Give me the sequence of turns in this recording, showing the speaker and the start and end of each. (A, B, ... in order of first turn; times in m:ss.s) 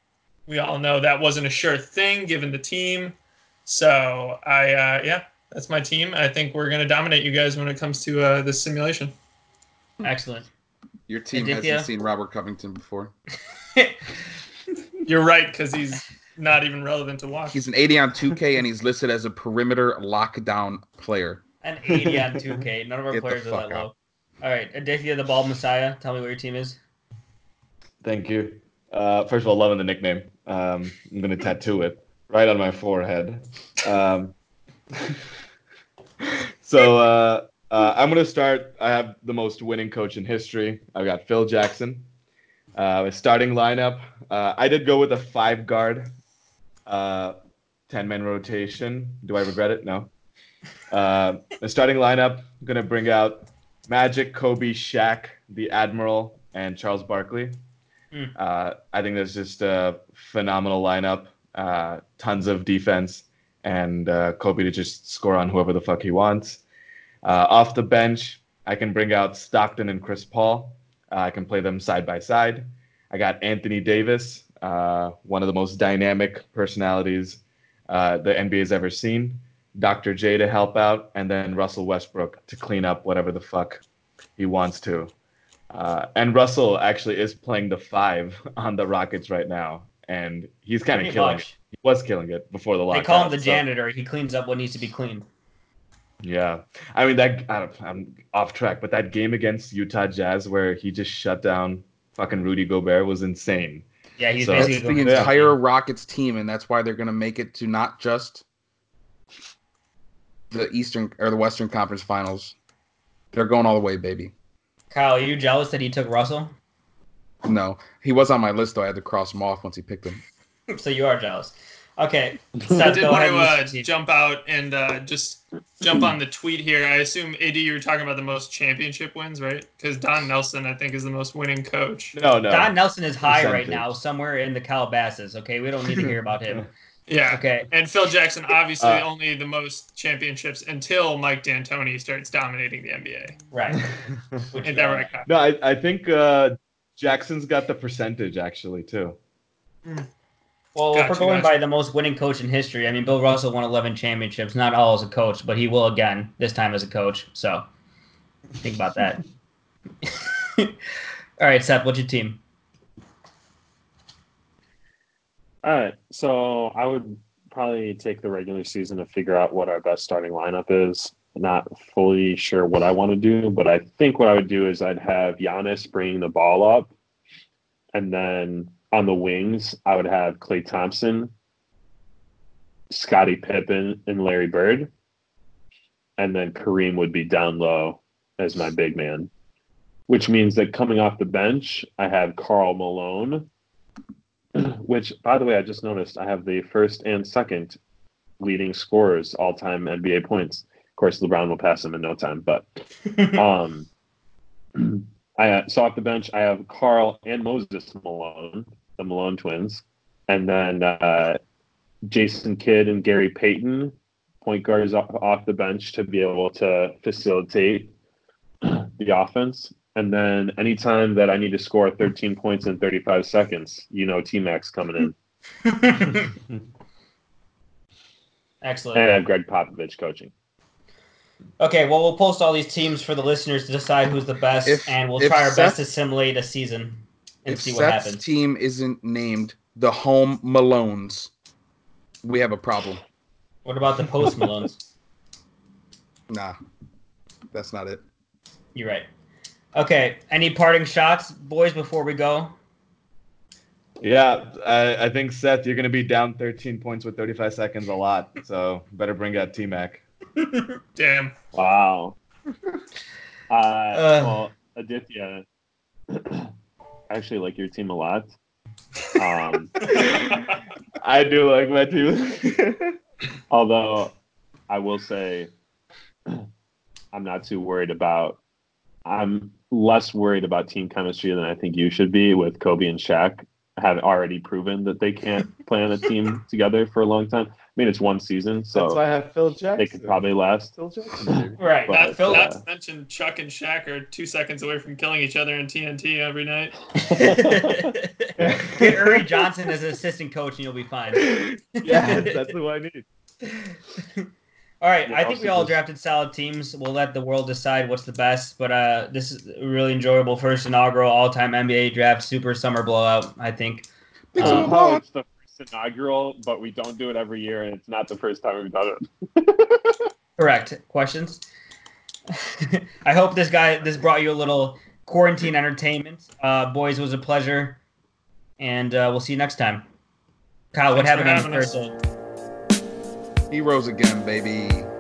0:00.5-0:09.1 A
0:10.0-0:10.5 B
0:11.1-0:13.1 C
0:11.3-0:11.9 B
0:15.0-0:17.6 A
0:17.5-0:21.4 C
0:21.6-0:26.8 B
0:22.0-0:22.6 D
0:23.1-0:23.9 C
0:28.0-0:34.3 D
0:35.0-0:35.3 D
0:36.2-0:42.0 D
0:42.7-0:46.1 D
0:46.8-0:47.4 D
0:47.9-0:50.1 D
0:50.9-0:57.6 D
0:58.3-1:06.6 D
1:07.2-1:23.8 D
1:24.4-1:25.1 D
1:25.7-1:33.6 D
1:30.9-1:31.6 B
1:32.9-1:35.3 B
1:36.2-1:43.8 D
1:44.2-1:45.5 B
1:44.4-1:45.3 D
1:44.5-1:48.4 C
1:50.5-1:52.6 C
1:53.3-1:54.3 C
1:54.9-1:56.5 B
1:57.4-2:00.2 C
2:00.7-2:03.9 B
2:02.8-2:12.2 A
2:12.1-2:14.0 D
2:12.5-2:16.7 B
2:16.0-2:16.6 D
2:17.1-2:23.4 A
2:17.3-2:17.7 B
2:18.8-2:19.1 D
2:23.5-2:23.9 B
2:24.0-2:24.4 D
2:24.5-2:25.1 B
2:24.6-2:25.3 A
2:25.3-2:29.2 D
2:30.7-2:37.6 B
2:30.9-2:31.6 A
2:38.6-2:39.2 B
2:40.0-2:40.7 B
2:41.4-2:42.4 B
2:45.6-2:56.9 E
2:57.9-3:01.3 E
3:02.9-3:04.9 E
3:06.2-3:09.3 E
3:10.1-3:13.5 E
3:14.6-3:17.8 E
3:18.4-3:23.9 E
3:24.8-3:31.4 E
3:32.0-3:37.9 E
3:38.6-3:45.2 E
3:45.6-3:46.3 B
3:48.6-3:49.1 B
3:48.9-3:50.3 E
3:51.6-3:58.2 B
3:54.6-3:55.8 C
3:57.5-4:01.3 C
4:02.2-4:03.0 C
4:03.6-4:04.8 B
4:06.3-4:06.6 C
4:07.5-4:08.0 C
4:08.7-4:09.0 B
4:09.7-4:12.6 B
4:14.0-4:20.0 D
4:20.4-4:20.7 B
4:21.0-4:21.3 A
4:21.5-4:22.2 E
4:23.5-4:25.4 E
4:23.9-4:24.5 B
4:26.1-4:26.5 E
4:27.1-4:28.3 E
4:29.1-4:29.8 E
4:31.0-4:33.0 D
4:33.5-4:34.1 E
4:34.7-4:35.5 E
4:37.1-4:38.4 E
4:39.0-4:49.0 E
4:48.7-4:51.6 D
4:49.8-4:52.6 E
4:51.6-4:52.5 B
4:51.9-4:56.7 A
4:57.1-4:57.9 E
4:57.1-5:02.5 B
4:58.4-4:59.2 D
5:01.2-5:03.0 D
5:03.4-5:04.3 B
5:04.8-5:14.7 B
5:05.0-5:05.8 E
5:14.3-5:15.0 C
5:14.4-5:20.0 E
5:20.4-5:21.4 B
5:22.3-5:27.8 B
5:28.6-5:29.8 B
5:30.7-5:31.9 B
5:30.9-5:31.7 A
5:33.5-5:34.9 C